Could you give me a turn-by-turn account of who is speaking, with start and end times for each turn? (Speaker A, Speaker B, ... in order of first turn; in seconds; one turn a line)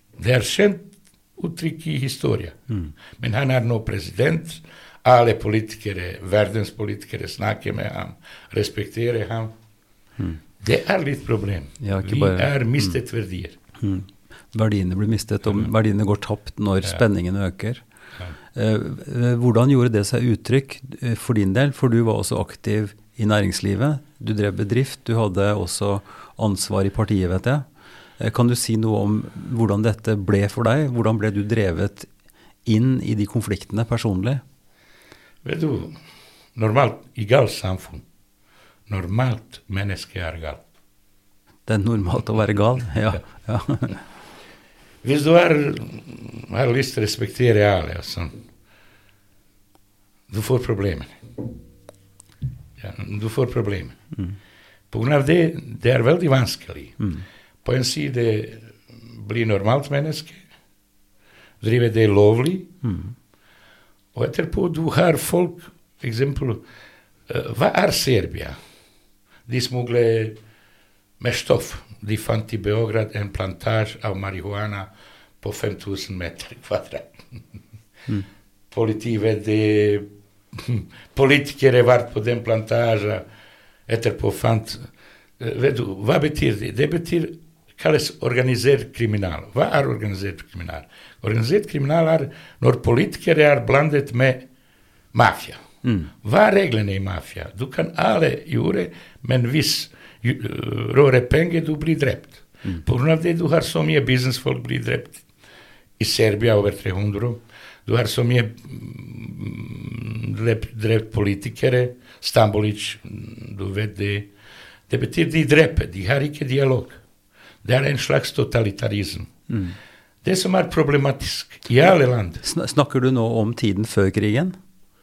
Speaker A: 0.2-2.6
Speaker A: 3.1-9.5
Speaker A: 10.6-13.6
Speaker B: 11.8-12.9
Speaker B: 13.8-17.8
Speaker B: 18.5-27.6
Speaker B: 28.2-32.1
Speaker B: 32.6-34.4
Speaker A: 35.4-36.0
Speaker A: 36.5-38.0
Speaker A: 38.9-40.6
Speaker B: 41.7-44.0
Speaker A: 45.0-48.4
Speaker A: 50.3-51.1
Speaker A: 52.8-54.0
Speaker A: 54.9-57.0
Speaker A: 57.6-60.4
Speaker A: 61.6-62.7
Speaker B: 62.8-63.1
Speaker A: 64.2-66.6
Speaker A: 67.3-68.6
Speaker A: 69.5-70.4
Speaker A: 71.2-74.9
Speaker A: 75.4-77.4
Speaker A: 78.7-83.2
Speaker A: 83.9-94.5
Speaker A: 95.1-95.6
Speaker B: 95.8-96.1
Speaker A: 96.2-105.2
Speaker A: 106.0-114.3
Speaker A: 114.9-117.0
Speaker A: 117.6-119.3
Speaker B: 119.5-119.8
Speaker A: 120.2-122.4
Speaker B: 122.4-124.6